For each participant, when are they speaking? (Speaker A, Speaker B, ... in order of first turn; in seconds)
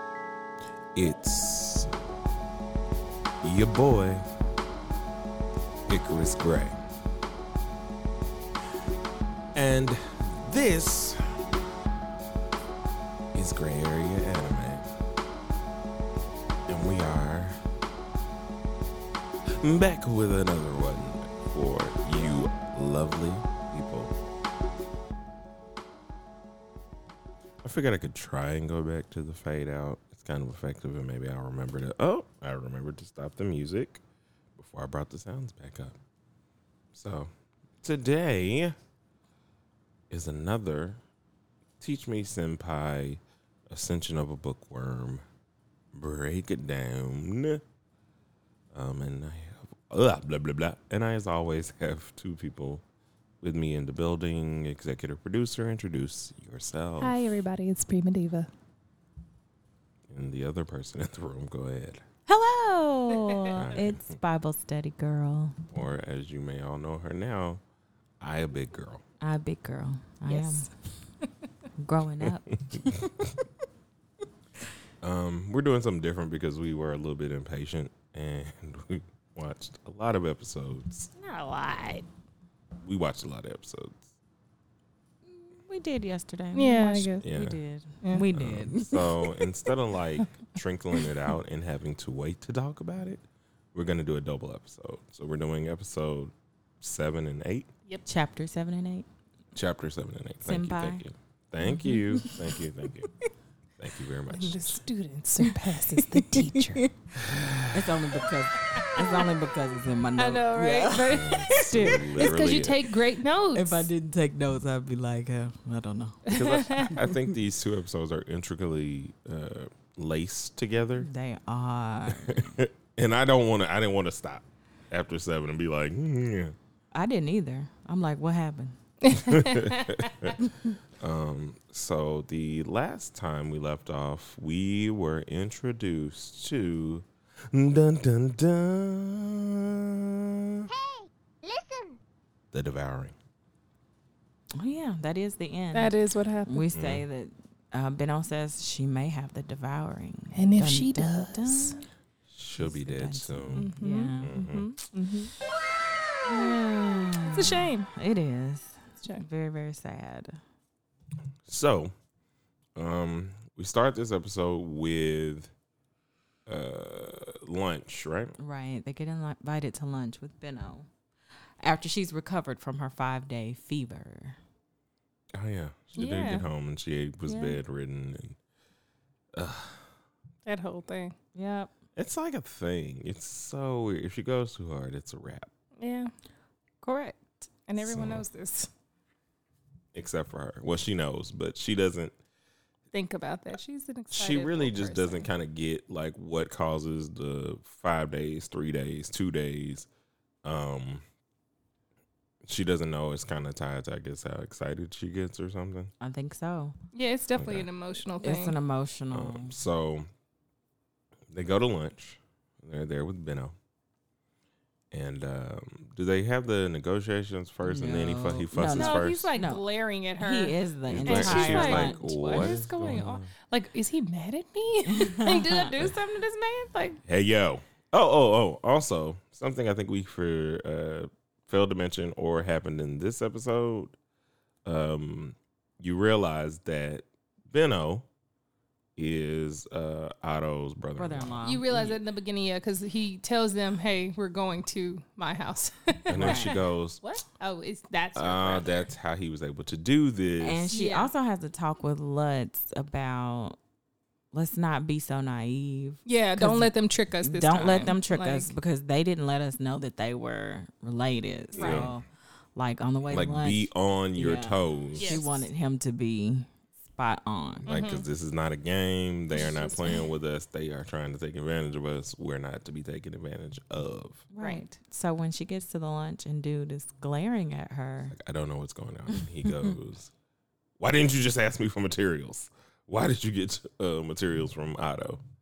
Speaker A: 0.9-1.9, 3.4-4.2, 5.9-6.8, 9.6-11.2, 13.3-14.9, 16.7-17.6, 19.6-24.1, 27.6-34.0, 34.6-36.0, 36.9-37.3, 37.8-38.8, 40.1-41.0, 41.8-45.2, 45.9-47.6, 48.7-52.8, 53.4-57.2, 60.1-62.0, 63.5-64.2, 65.7-67.6, 68.2-69.0, 72.2-73.3, 75.0-81.1, 82.8-84.1, 87.2-87.6, 88.3-93.2, 93.7-97.7, 99.5-103.1, 103.8-104.8, 107.2-108.0, 111.0-112.8, 116.3-121.1, 122.1-126.5, 129.2-130.4, 131.0-140.7, 142.5-143.2, 146.7-147.0, 152.3-154.7, 161.5-161.9, 162.8-165.5, 166.5-168.4, 175.3-178.4, 179.3-179.9, 182.0-185.5, 187.8-188.3, 189.9-192.2, 194.1-199.9, 200.4-201.0, 202.5-205.9, 207.4-207.7, 209.1-210.1, 211.3-213.6, 214.9-219.3, 220.9-223.3, 227.1-233.9, 234.7-238.1, 239.0-241.4, 246.1-247.0, 248.2-250.7, 261.5-261.9, 263.1-265.3, 267.7-274.3, 278.1-280.1, 280.8-285.2
Speaker B: 57.0-58.5, 63.1-63.6, 70.3-70.7, 81.2-82.0, 86.5-87.3, 104.3-106.9, 108.7-109.3, 110.2-113.9, 116.3-117.0, 129.0-130.3, 145.7-146.7, 150.3-151.8, 153.5-155.3, 157.3-157.9, 176.0-176.4, 177.3-177.6, 180.5-181.2, 185.8-186.1, 186.8-188.7, 192.9-195.3, 206.9-208.6, 218.7-227.0, 241.4-248.9, 250.7-251.1, 256.1-258.5, 261.5-261.9, 265.0-265.4, 267.7-268.1, 269.3-270.1, 274.4-274.7
Speaker C: 62.3-65.6, 69.2-70.7, 71.8-73.1, 85.3-89.4, 98.1-99.1, 100.4-101.0, 101.8-102.6, 105.4-112.6, 113.5-116.2, 121.0-122.6, 126.9-128.8, 130.4-130.8, 144.6-145.9, 146.5-151.8, 152.6-154.4, 156.3-160.4, 168.4-170.9, 171.6-174.4, 181.3-181.7, 206.0-206.8, 208.2-209.5, 217.6-219.6, 220.2-222.6, 224.9-225.7, 241.0-242.0, 246.2-246.6, 250.4-253.6, 254.3-262.1, 262.6-267.7, 274.3-278.1